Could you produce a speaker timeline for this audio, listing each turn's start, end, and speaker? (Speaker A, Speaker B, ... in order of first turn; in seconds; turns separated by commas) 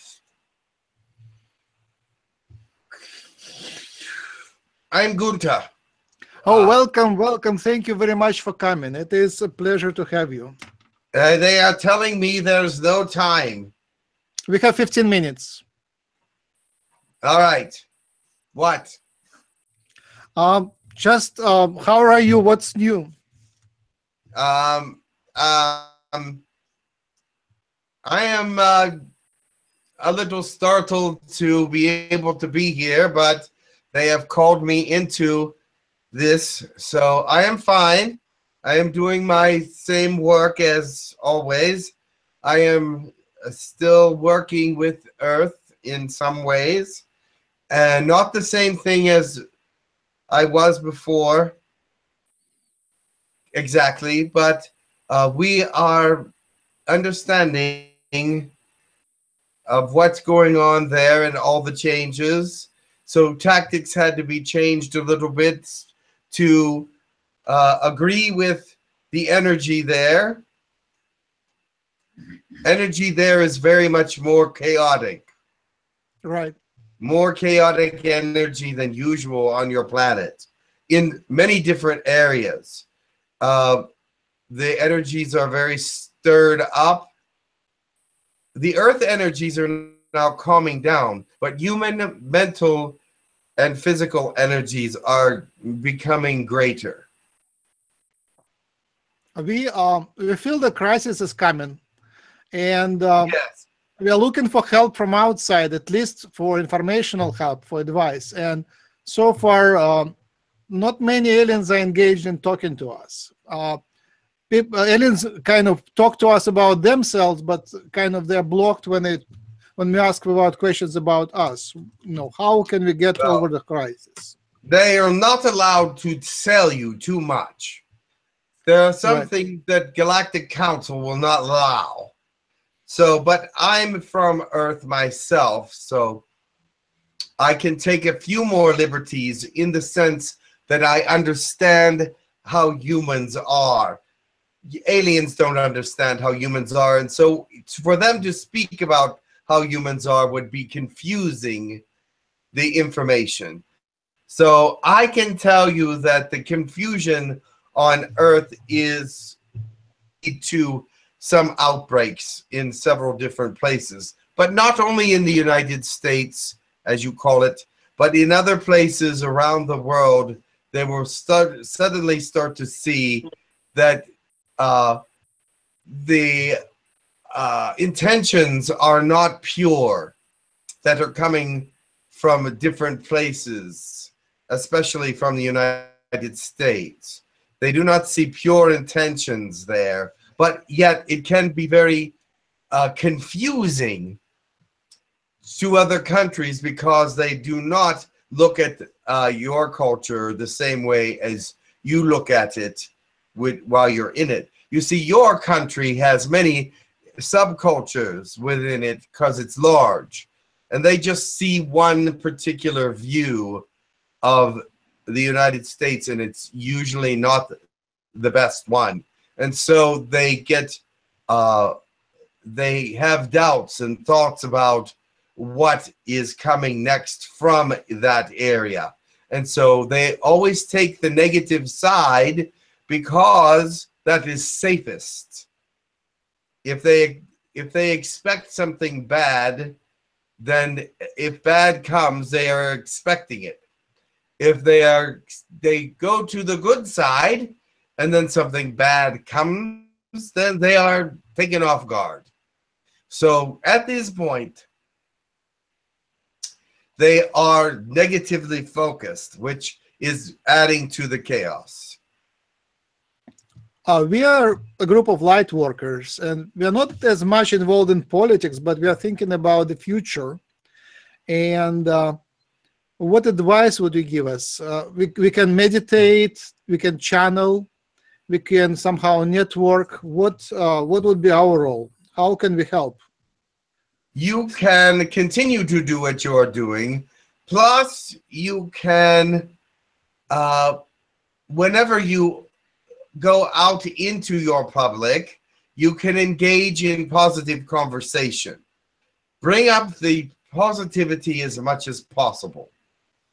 Speaker A: 4.9-5.7, Speaker B: 6.4-10.5, Speaker A: 6.5-6.7, Speaker A: 11.1-13.7, Speaker B: 14.5-15.6, Speaker A: 17.2-17.8, Speaker A: 18.5-19.0, Speaker B: 20.3-23.1, Speaker A: 24.3-26.4, Speaker A: 28.0-28.9, Speaker A: 30.0-35.5, Speaker A: 36.1-47.0, Speaker A: 47.7-49.4, Speaker A: 50.3-51.5, Speaker A: 53.5-56.3, Speaker A: 56.9-58.5, Speaker A: 59.7-66.9, Speaker A: 67.5-70.4, Speaker A: 72.6-75.2, Speaker B: 76.2-76.5, Speaker A: 77.0-82.8, Speaker A: 83.4-83.8, Speaker A: 84.5-87.1, Speaker A: 88.5-93.0, Speaker A: 93.6-97.0, Speaker B: 99.3-101.8, Speaker B: 102.5-103.3, Speaker A: 103.2-103.6, Speaker B: 104.0-110.1, Speaker B: 110.7-113.8, Speaker B: 114.5-119.2, Speaker B: 119.8-124.3, Speaker A: 124.6-127.8, Speaker A: 128.7-132.1, Speaker A: 132.9-136.2, Speaker A: 137.4-144.0, Speaker A: 144.7-151.8, Speaker A: 152.5-153.6, Speaker A: 154.3-159.4, Speaker A: 160.2-174.1, Speaker A: 174.6-175.0, Speaker A: 175.9-176.6, Speaker A: 177.3-180.1, Speaker A: 180.8-192.1, Speaker A: 192.7-194.2, Speaker A: 195.4-213.7, Speaker A: 214.2-217.6, Speaker A: 218.1-221.7, Speaker A: 222.4-235.4, Speaker A: 236.6-239.8, Speaker A: 240.4-243.6, Speaker A: 244.4-252.2, Speaker A: 253.1-254.6, Speaker A: 257.0-262.0, Speaker B: 263.9-270.4, Speaker B: 271.3-272.2, Speaker B: 273.0-277.7, Speaker B: 278.3-283.0, Speaker A: 284.1-289.5, Speaker A: 290.3-290.8, Speaker A: 291.5-292.5, Speaker A: 293.1-298.6, Speaker A: 299.4-302.7